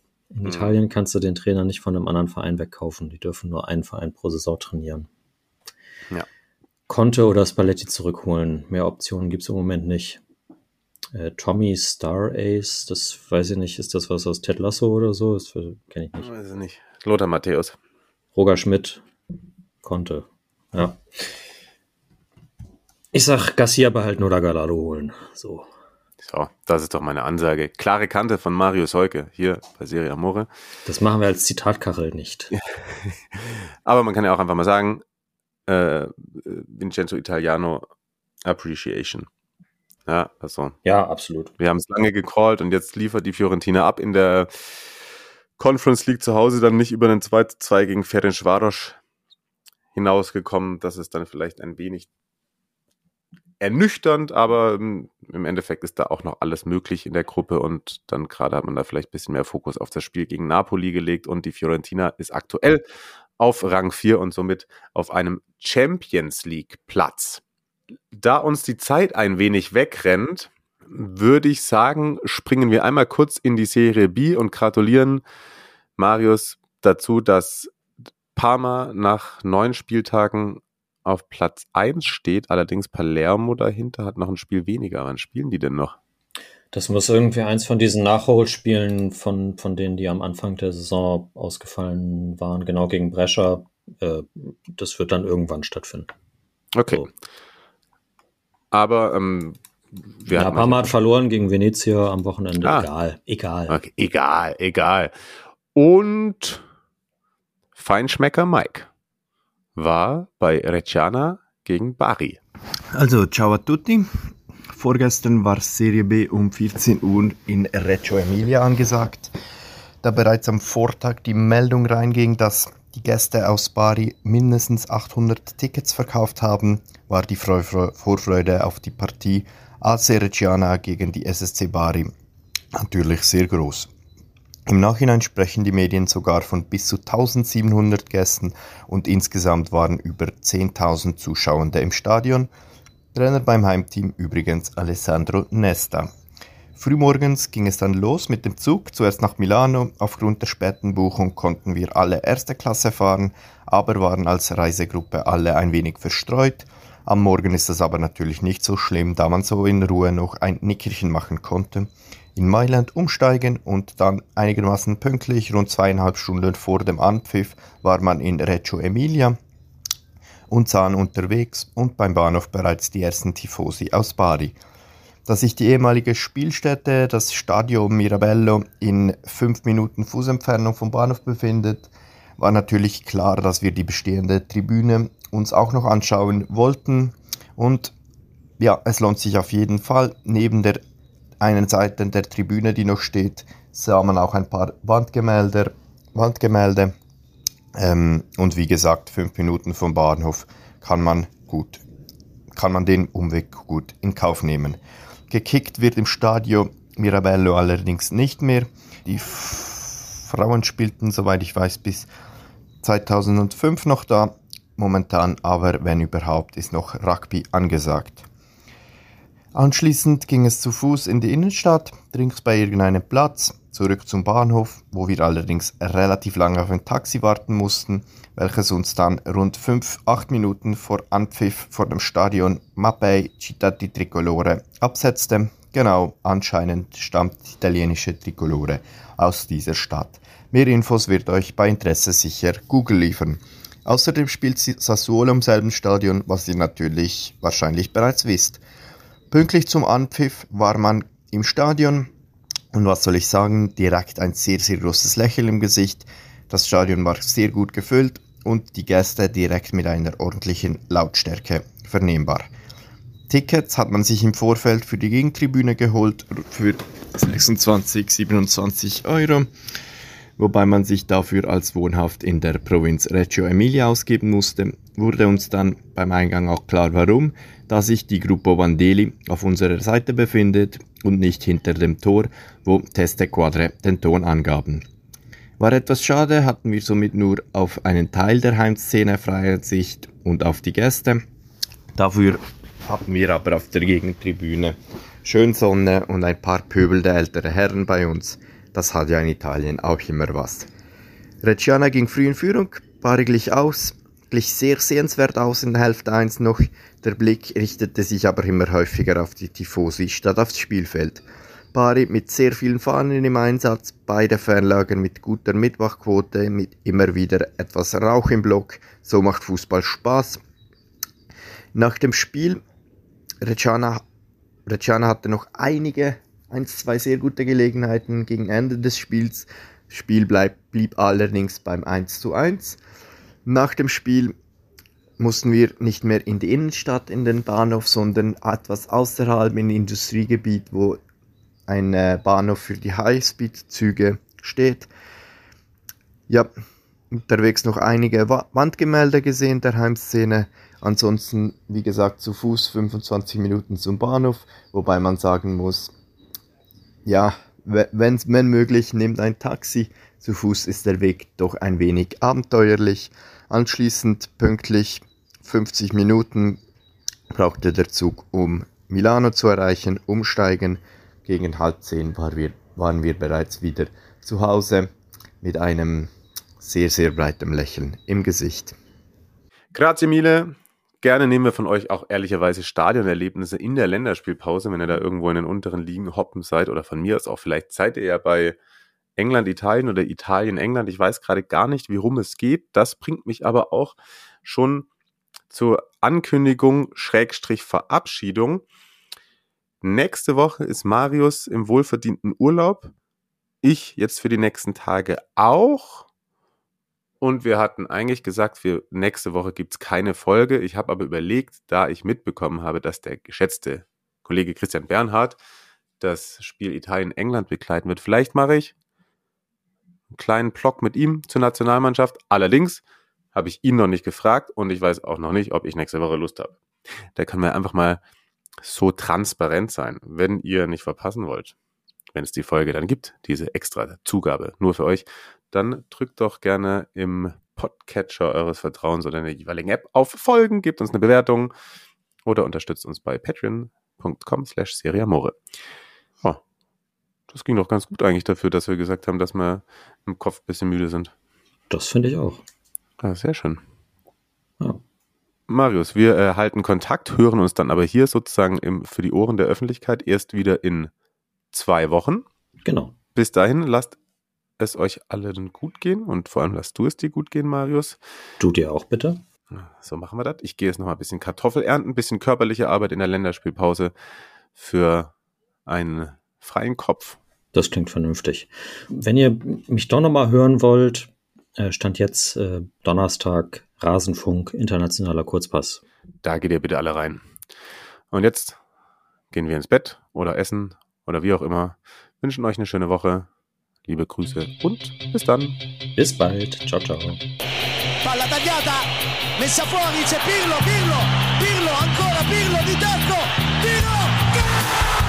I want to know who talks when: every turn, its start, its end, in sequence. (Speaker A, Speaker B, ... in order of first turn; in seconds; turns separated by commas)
Speaker A: 0.3-5.1, Speaker B: 0.4-0.7, Speaker A: 6.9-10.2, Speaker A: 11.1-16.3, Speaker B: 16.2-17.8, Speaker A: 18.3-19.0, Speaker A: 19.8-21.2, Speaker A: 23.1-25.7, Speaker B: 26.2-30.5, Speaker A: 30.9-32.5, Speaker B: 32.5-35.0, Speaker B: 35.7-37.9, Speaker B: 38.4-39.3, Speaker B: 40.0-40.8, Speaker A: 40.8-41.5, Speaker B: 41.6-44.9, Speaker B: 45.6-49.0, Speaker B: 49.9-52.1, Speaker B: 53.6-62.9, Speaker B: 63.4-67.4, Speaker B: 68.1-75.2, Speaker B: 76.0-77.7, Speaker B: 78.3-86.0, Speaker A: 86.7-96.1, Speaker B: 96.7-97.1, Speaker B: 98.7-99.6, Speaker B: 100.1-100.9, Speaker A: 100.3-103.8, Speaker B: 102.6-102.9, Speaker B: 103.7-105.2, Speaker B: 105.7-106.6, Speaker B: 107.7-108.9, Speaker B: 109.8-112.4, Speaker C: 112.9-114.1, Speaker C: 114.7-119.3, Speaker C: 120.0-132.1, Speaker C: 132.7-133.9, Speaker C: 134.7-142.5, Speaker C: 143.1-146.1, Speaker C: 146.8-169.4, Speaker C: 170.5-174.6, Speaker C: 175.2-187.9, Speaker C: 188.6-190.8, Speaker C: 191.4-196.9, Speaker C: 197.7-201.8, Speaker C: 202.5-212.1, Speaker C: 212.8-218.3, Speaker C: 219.5-248.6, Speaker C: 249.3-252.1, Speaker C: 252.7-262.5, Speaker C: 263.3-269.5, Speaker C: 270.4-284.9, Speaker C: 285.6-291.2, Speaker C: 291.9-300.7, Speaker C: 301.4-320.4, Speaker C: 321.7-322.6, Speaker C: 323.4-324.0, Speaker C: 324.7-332.8, Speaker C: 333.4-334.3, Speaker C: 335.2-341.0, Speaker C: 341.7-344.9, Speaker C: 347.1-355.9, Speaker C: 357.1-366.6, Speaker C: 367.3-374.9, Speaker C: 375.4-378.7, Speaker B: 379.7-388.6, Speaker B: 389.1-394.9, Speaker B: 395.5-398.6, Speaker B: 399.8-402.9, Speaker B: 403.6-406.1, Speaker B: 407.2-415.4, Speaker B: 416.0-418.7, Speaker B: 420.1-422.8, Speaker B: 423.3-426.6, Speaker B: 427.1-428.0, Speaker B: 428.6-431.5, Speaker B: 432.1-441.5, Speaker B: 442.2-445.4, Speaker B: 447.3-451.1, Speaker A: 451.7-452.4, Speaker B: 453.0-453.6, Speaker B: 455.5-460.9, Speaker B: 461.5-462.2, Speaker A: 462.6-462.9, Speaker B: 463.1-464.0, Speaker B: 464.6-468.0, Speaker A: 468.4-469.2, Speaker B: 469.5-473.9, Speaker B: 474.6-475.1, Speaker B: 475.6-477.2, Speaker A: 477.5-485.8, Speaker B: 486.2-487.3, Speaker B: 488.1-488.6, Speaker B: 489.3-493.3, Speaker B: 493.9-495.6, Speaker A: 495.9-497.2, Speaker D: 498.0-504.2